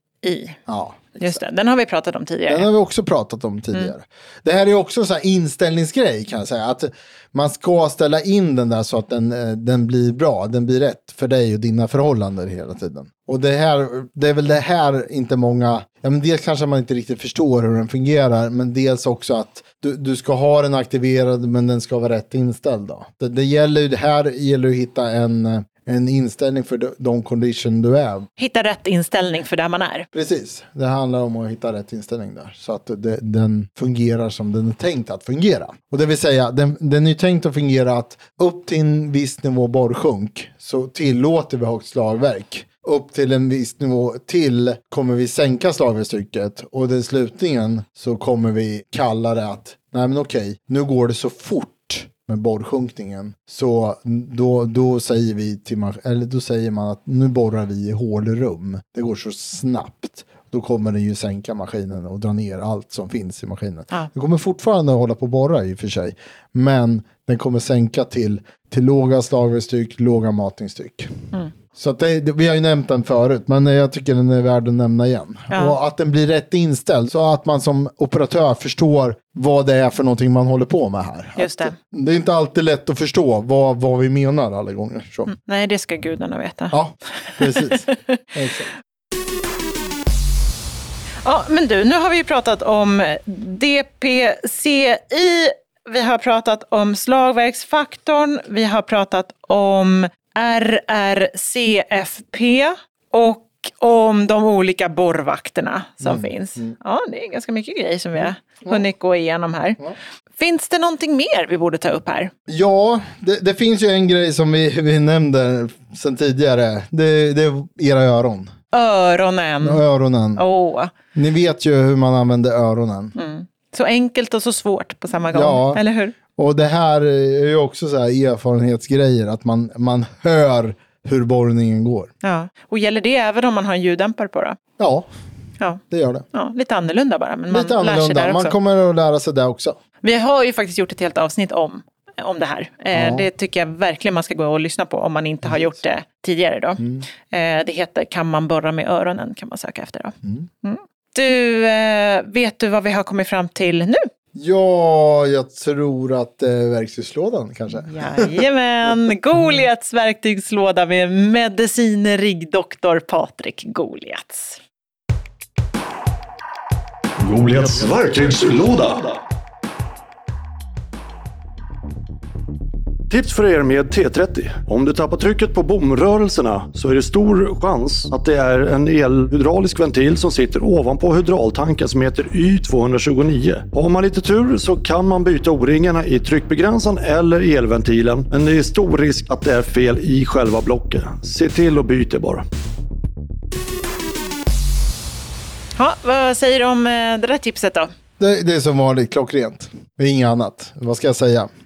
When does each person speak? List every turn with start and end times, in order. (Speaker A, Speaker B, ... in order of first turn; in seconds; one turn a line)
Speaker A: 0.2-0.6
Speaker B: 0.7-1.4
Speaker A: 1.2-2.7
Speaker B: 2.5-28.3
Speaker A: 28.4-30.1
Speaker B: 30.1-85.3
Speaker A: 75.5-75.8
Speaker A: 81.4-81.8
Speaker A: 85.3-88.2
Speaker B: 86.7-88.7
Speaker A: 91.2-109.8
Speaker B: 106.0-106.8
Speaker B: 108.2-108.8
Speaker A: 110.4-112.3
Speaker B: 112.5-118.5
Speaker A: 118.7-119.8
Speaker B: 119.6-120.4
Speaker A: 120.4-120.9
Speaker B: 121.1-123.2
Speaker A: 123.2-126.2
Speaker B: 125.3-125.8
Speaker B: 126.3-132.1
Speaker A: 132.2-134.6
Speaker B: 134.8-135.1
Speaker B: 135.9-136.2
Speaker A: 136.3-138.6
Speaker B: 137.5-139.8
Speaker A: 140.0-154.1
Speaker B: 142.9-143.3
Speaker B: 145.4-145.7
Speaker B: 146.8-147.1
Speaker B: 154.3-158.4
Speaker A: 157.7-164.6
Speaker C: 167.2-169.2
Speaker C: 173.1-192.4
Speaker A: 195.8-197.9
Speaker B: 198.2-201.5